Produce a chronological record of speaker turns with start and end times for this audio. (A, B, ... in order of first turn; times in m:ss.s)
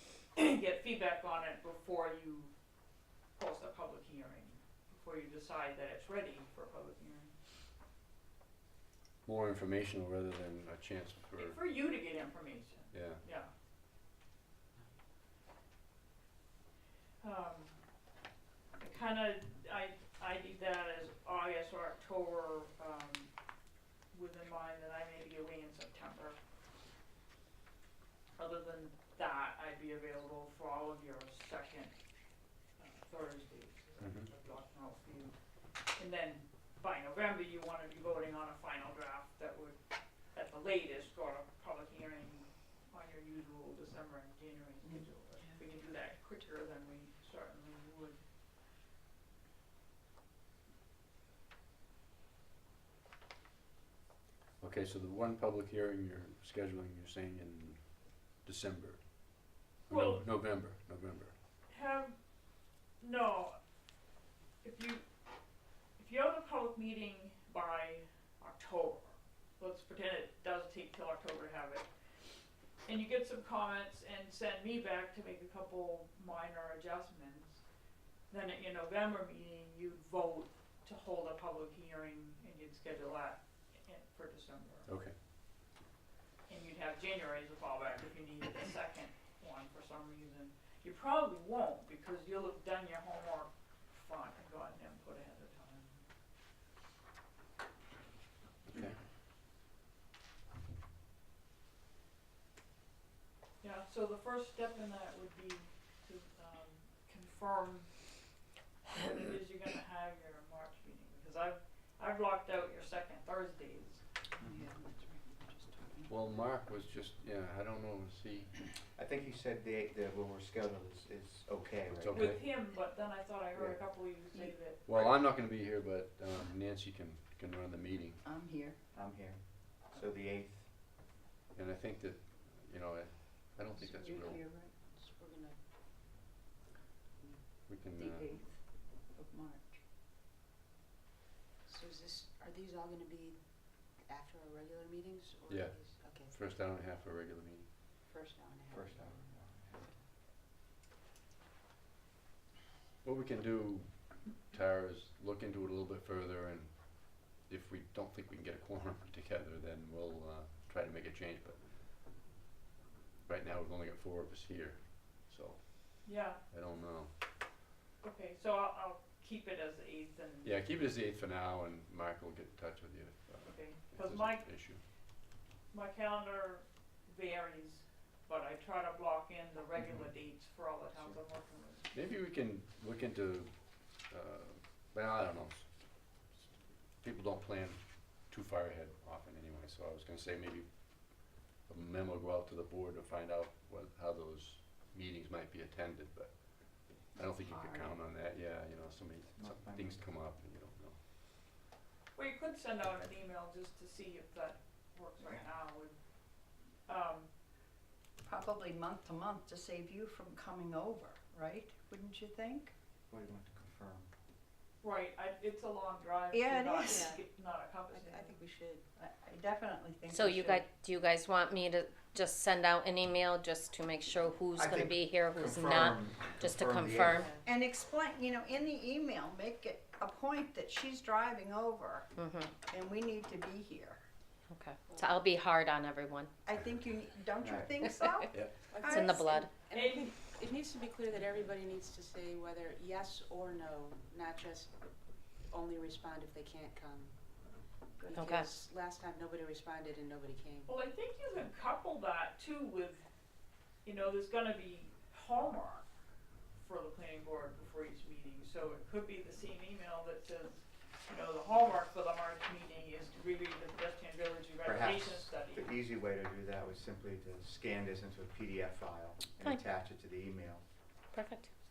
0:00.4-0:02.5 A
0:03.4-0:07.3 A
0:09.2-0:11.6 B
0:11.4-0:13.5 A
0:12.9-0:13.2 B
0:17.2-0:17.8 A
0:18.8-0:23.3 A
0:24.1-0:26.4 A
0:28.4-0:31.9 A
0:32.8-0:35.4 A
0:34.0-0:34.3 B
0:35.9-0:39.8 A
0:40.3-0:48.2 A
0:54.6-1:01.4 B
0:59.9-1:00.2 A
1:01.7-1:02.2 A
1:03.0-1:03.6 A
1:04.6-1:05.0 A
1:06.0-1:11.9 A
1:12.8-1:17.6 A
1:18.3-1:24.9 A
1:24.8-1:25.2 B
1:26.5-1:36.0 A
1:38.7-1:39.0 B
1:43.6-1:48.3 A
1:48.9-1:54.0 A
1:54.4-1:56.1 C
1:56.1-1:58.7 B
1:59.0-2:02.3 D
2:01.9-2:02.5 B
2:02.1-2:04.8 A
2:03.6-2:03.9 D
2:04.8-2:08.2 B
2:08.2-2:08.8 C
2:08.9-2:10.8 D
2:11.5-2:14.5 B
2:13.8-2:14.8 C
2:15.0-2:15.6 E
2:17.7-2:18.3 B
2:18.0-2:19.8 C
2:21.7-2:26.3 E
2:25.5-2:27.7 B
2:28.3-2:29.0 E
2:28.7-2:30.0 D
2:33.0-2:41.9 B
2:43.3-2:47.1 B
2:46.0-2:46.4 A
2:48.0-2:50.6 A
2:50.4-2:54.8 B
2:53.4-2:54.5 A
2:55.7-3:01.9 A
3:01.9-3:06.2 B
3:07.0-3:21.0 B
3:17.4-3:17.9 C
3:19.4-3:20.0 D
3:22.2-3:27.3 A
3:28.2-3:32.7 C
3:33.1-3:34.1 D
3:34.8-3:38.4 A
3:36.3-3:37.2 C
3:36.9-3:37.3 E
3:37.9-3:38.9 E
3:39.0-3:40.7 C
3:40.1-3:47.2 F
3:44.6-3:47.2 D
3:47.2-3:47.5 E
3:47.4-3:52.1 C
3:52.2-3:52.5 F
3:52.6-3:54.0 C
3:54.5-3:56.3 F
3:56.4-3:59.5 C
3:57.4-3:57.7 D
3:58.3-3:58.7 B
3:58.7-4:04.8 E
3:58.8-3:59.5 F
3:59.7-4:00.2 A
4:05.4-4:07.2 E
4:08.0-4:10.7 E
4:08.1-4:08.5 F
4:10.7-4:13.0 A
4:13.8-4:15.9 A
4:16.6-4:25.7 A
4:24.6-4:30.6 D
4:31.1-4:31.5 F